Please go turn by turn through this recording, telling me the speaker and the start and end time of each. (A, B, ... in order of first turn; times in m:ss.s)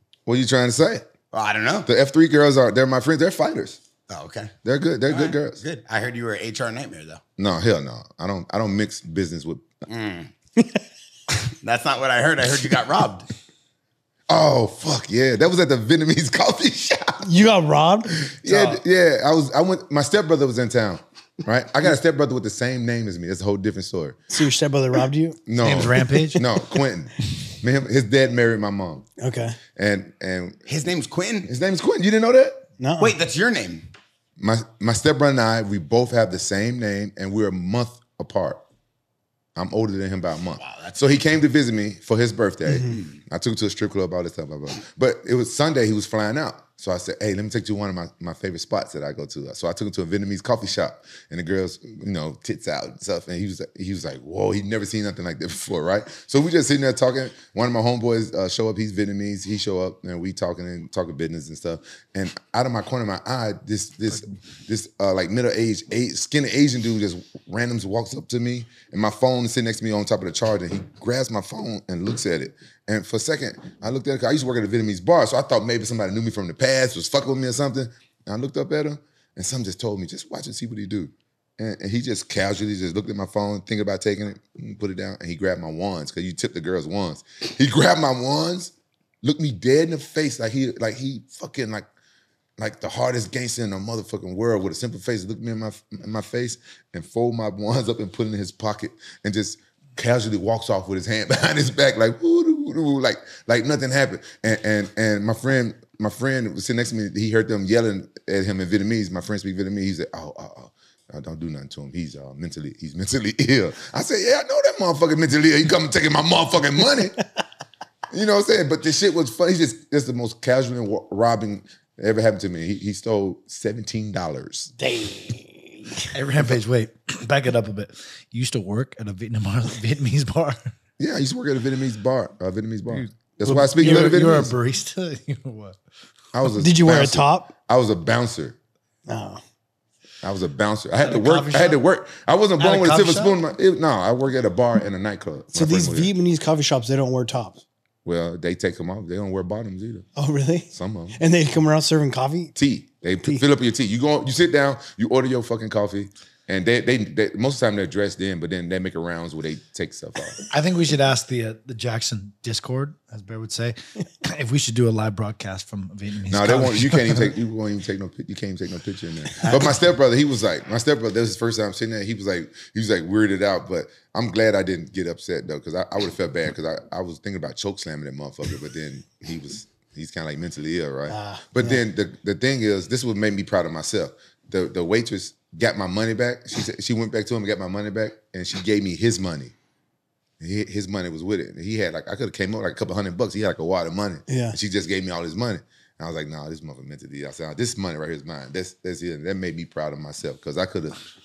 0:00.3-0:01.1 A
0:01.3-0:01.9 B
0:01.9-0:03.8 A
0:04.1-0:04.5 B
0:04.6-0:05.6 A
0:05.1-0:07.2 B
0:07.4-0:09.7 A
0:09.9-0:10.3 B
0:11.6-0:13.3 B
0:14.3-0:17.2 A
0:17.2-0:18.8 C
0:18.1-0:24.2 A
0:24.3-0:26.6 C
0:25.5-0:29.0 A
0:25.6-0:26.4 D
0:29.2-0:29.6 C
0:29.7-0:30.6 A
0:30.7-0:31.5 B
0:31.5-0:32.6 A
0:32.8-0:33.2 C
0:33.0-0:33.9 B
0:34.4-0:38.6 A
0:39.6-1:31.9 A
0:40.6-0:41.2 B
0:42.7-0:42.9 C
1:32.6-1:57.2 A
1:58.1-2:04.7 A
2:04.8-2:06.1 C
2:06.1-2:10.6 D
2:11.0-2:14.5 A
2:13.4-2:14.2 C
2:13.8-2:15.8 D
2:16.3-2:18.6 A
2:16.6-2:17.5 C
2:19.1-2:19.4 C
2:20.2-2:26.1 A
2:21.0-2:21.8 D
2:22.6-2:23.4 D
2:25.5-2:27.6 C
2:28.0-2:30.0 A
2:30.2-2:32.5 C
2:30.7-2:31.2 A
2:32.6-2:40.4 A
2:40.5-2:47.3 D
2:46.3-3:09.5 A
3:01.1-3:01.8 C
3:10.4-3:21.0 A
3:14.3-3:14.6 C